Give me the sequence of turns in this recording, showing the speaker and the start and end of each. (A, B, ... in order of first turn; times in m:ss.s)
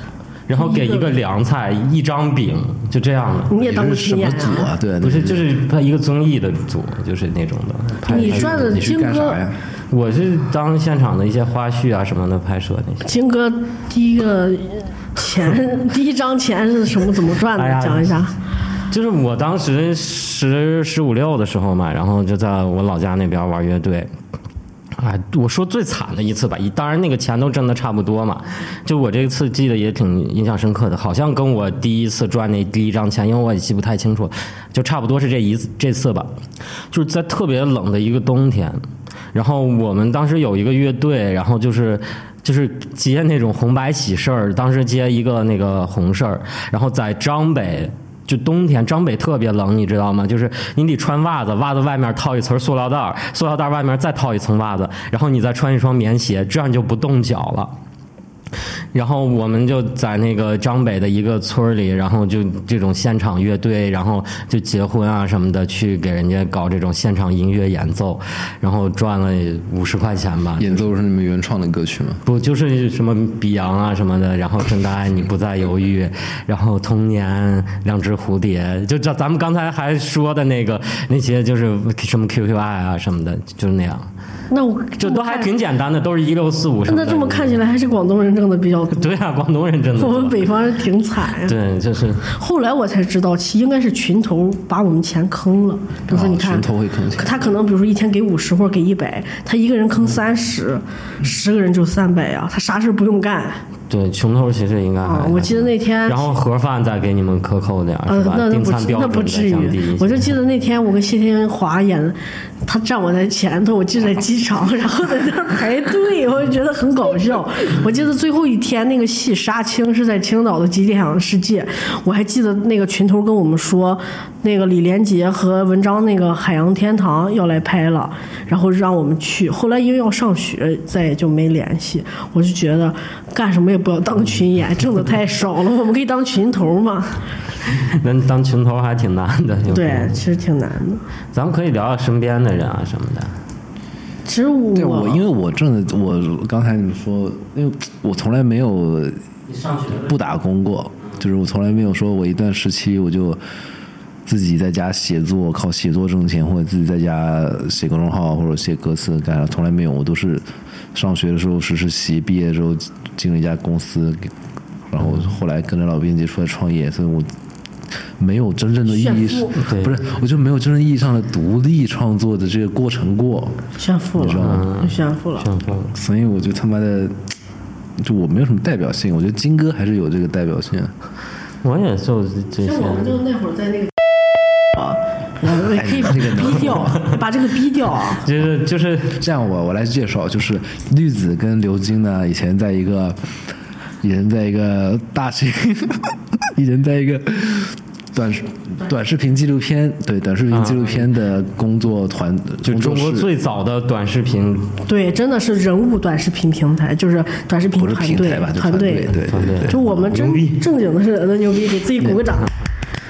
0:00.5-0:03.5 A
0:00.5-0:01.1 B
0:03.5-0:04.7 B
0:03.6-0:05.5 C
0:05.0-0:08.7 A
0:08.0-0:09.6 C
0:08.1-0:09.4 B
0:09.9-0:13.1 A
0:13.0-0:18.3 B
0:17.6-0:18.1 A
0:18.9-0:24.1 A
0:25.0-0:36.3 A
0:36.9-0:38.8 A
0:39.3-0:57.7 A
0:58.9-1:10.8 A
1:10.6-1:12.2 C
1:12.2-1:24.1 A
1:24.5-1:25.5 B
1:25.0-1:27.6 A
1:26.9-1:29.1 B
1:29.0-1:30.5 A
1:30.0-1:31.6 B
1:31.4-1:32.2 A
1:32.3-1:43.6 B
1:36.1-1:37.5 C
1:43.9-1:50.3 A
1:45.0-1:46.3 B
1:48.1-2:17.2 B
2:17.8-2:20.2 A
2:19.7-2:21.0 B
2:21.3-2:23.3 A
2:24.2-2:25.2 B
2:24.7-2:29.2 C
2:29.5-2:30.1 A
2:30.0-2:33.4 C
2:34.2-2:44.3 C
2:44.9-2:47.3 C
2:48.2-2:53.6 C
2:48.9-2:49.6 B
2:49.6-2:50.0 A
2:53.8-2:55.5 B
2:54.2-2:54.7 C
2:54.3-2:55.9 A
2:55.9-2:57.2 C
2:58.0-3:00.9 C
3:01.6-3:03.2 A
3:02.6-3:03.9 B
3:04.8-3:08.2 B
3:05.6-3:07.1 C
3:08.2-3:09.2 A
3:09.2-3:13.2 C
3:14.0-3:23.3 C
3:20.5-3:21.1 A
3:22.6-3:24.8 A
3:24.8-3:32.5 B
3:27.7-3:29.8 C
3:29.3-3:30.6 A